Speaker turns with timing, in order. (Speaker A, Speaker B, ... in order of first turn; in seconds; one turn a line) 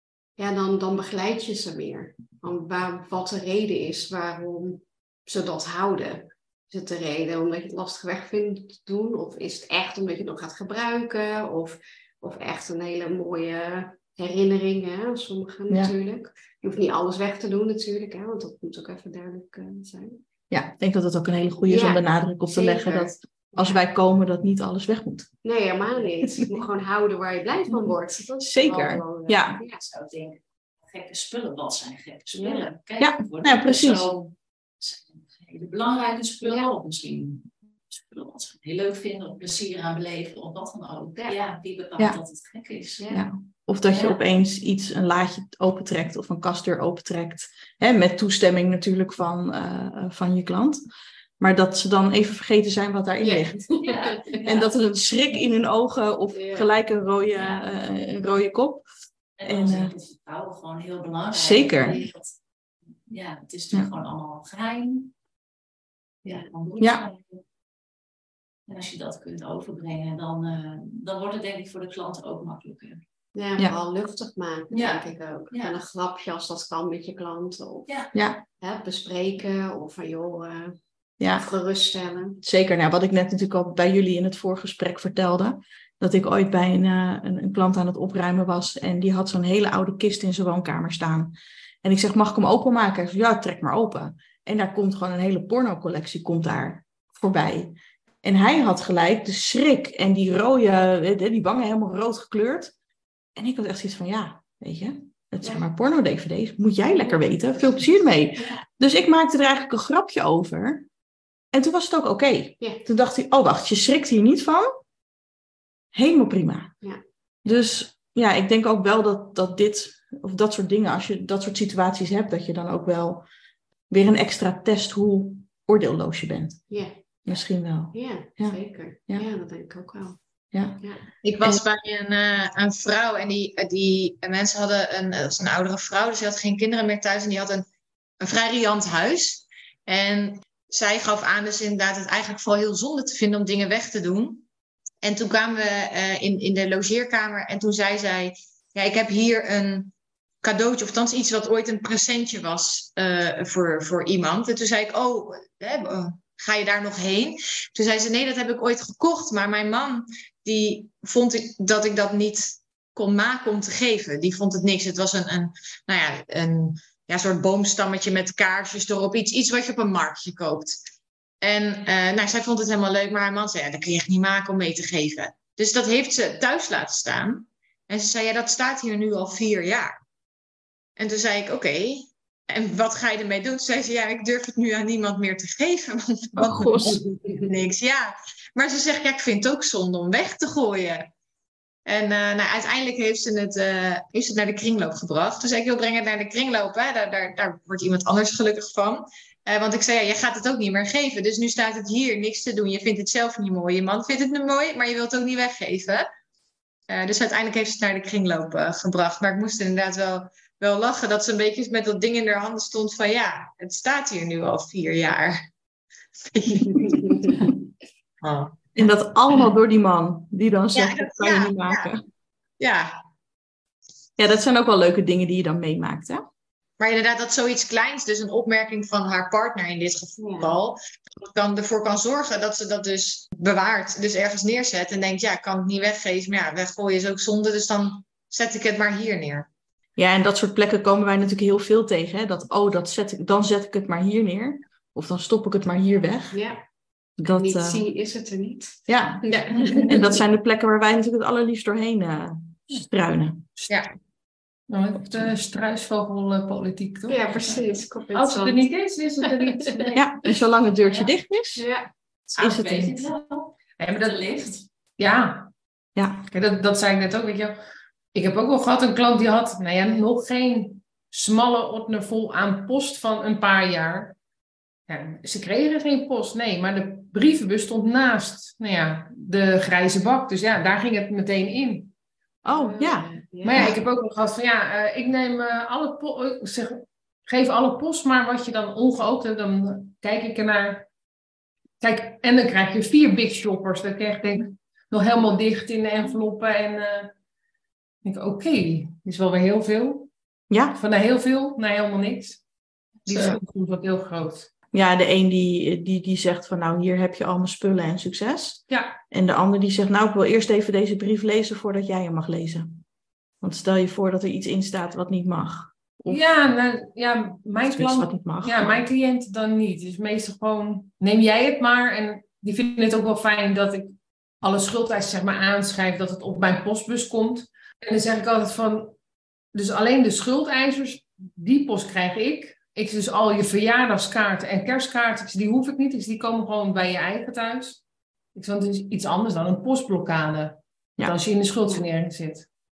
Speaker A: 0.4-20.2
Speaker B: 20.5-25.3
Speaker A: 21.7-23.8
Speaker A: 25.4-29.8
Speaker B: 28.4-29.6
Speaker C: 29.8-43.1
Speaker A: 32.4-32.7
Speaker B: 33.0-34.1
Speaker A: 36.4-36.7
Speaker A: 43.0-43.2
Speaker B: 43.1-50.8
Speaker C: 43.9-44.2
Speaker B: 51.4-53.6
Speaker A: 53.2-54.4
Speaker C: 53.8-54.8
Speaker B: 54.5-58.9
Speaker A: 56.3-56.8
Speaker C: 59.4-62.4
Speaker B: 59.4-59.9
Speaker B: 61.4-62.0
Speaker C: 63.1-65.1
Speaker C: 66.2-67.4
Speaker B: 66.8-67.0
Speaker C: 68.7-73.0
Speaker A: 73.3-78.0
Speaker C: 74.7-75.7
Speaker B: 78.1-78.4
Speaker A: 78.6-80.8
Speaker B: 81.2-81.5
Speaker A: 81.3-82.4
Speaker B: 82.4-102.7
Speaker B: 103.4-110.9
Speaker B: 111.5-114.7
Speaker B: 115.9-116.7
Speaker B: 117.5-123.3
Speaker B: 123.9-126.7
Speaker A: 126.7-127.4
Speaker B: 127.2-129.3
Speaker A: 127.9-130.2
Speaker B: 130.5-130.8
Speaker A: 130.8-131.0
Speaker D: 131.2-137.7
Speaker D: 138.2-144.5
Speaker D: 145.0-170.8
Speaker D: 171.4-179.9
Speaker D: 181.0-191.1
Speaker B: 186.4-187.0
Speaker A: 187.0-187.5
Speaker D: 191.9-206.1
Speaker D: 206.9-215.4
Speaker D: 216.3-217.5
Speaker A: 216.8-217.3
Speaker D: 218.2-218.8
Speaker B: 218.8-222.0
Speaker D: 220.7-221.9
Speaker D: 222.6-222.9
Speaker B: 224.2-226.2
Speaker D: 226.8-239.5
Speaker A: 230.2-230.6
Speaker B: 240.0-246.4
Speaker A: 246.3-246.6
Speaker B: 247.2-247.8
Speaker A: 247.2-250.2
Speaker B: 248.9-253.5
Speaker E: 253.6-253.9
Speaker E: 254.7-257.2
Speaker A: 257.1-258.6
Speaker E: 258.1-260.0
Speaker B: 259.9-261.6
Speaker C: 260.9-261.1
Speaker A: 261.6-261.9
Speaker C: 262.3-264.6
Speaker B: 262.4-263.1
Speaker E: 263.8-264.2
Speaker E: 265.0-265.5
Speaker B: 266.0-266.2
Speaker E: 266.3-267.6
Speaker E: 268.1-274.2
Speaker E: 274.9-281.9
Speaker A: 282.4-283.8
Speaker B: 282.5-283.7
Speaker E: 283.4-290.9
Speaker E: 291.8-297.1
Speaker E: 298.0-300.1
Speaker B: 300.5-300.8
Speaker E: 300.7-302.4
Speaker E: 303.1-304.5
Speaker B: 304.7-312.8
Speaker E: 308.7-309.0
Speaker B: 313.4-316.2
Speaker E: 316.1-328.9
Speaker B: 317.6-318.8
Speaker E: 329.5-337.8
Speaker E: 338.4-342.5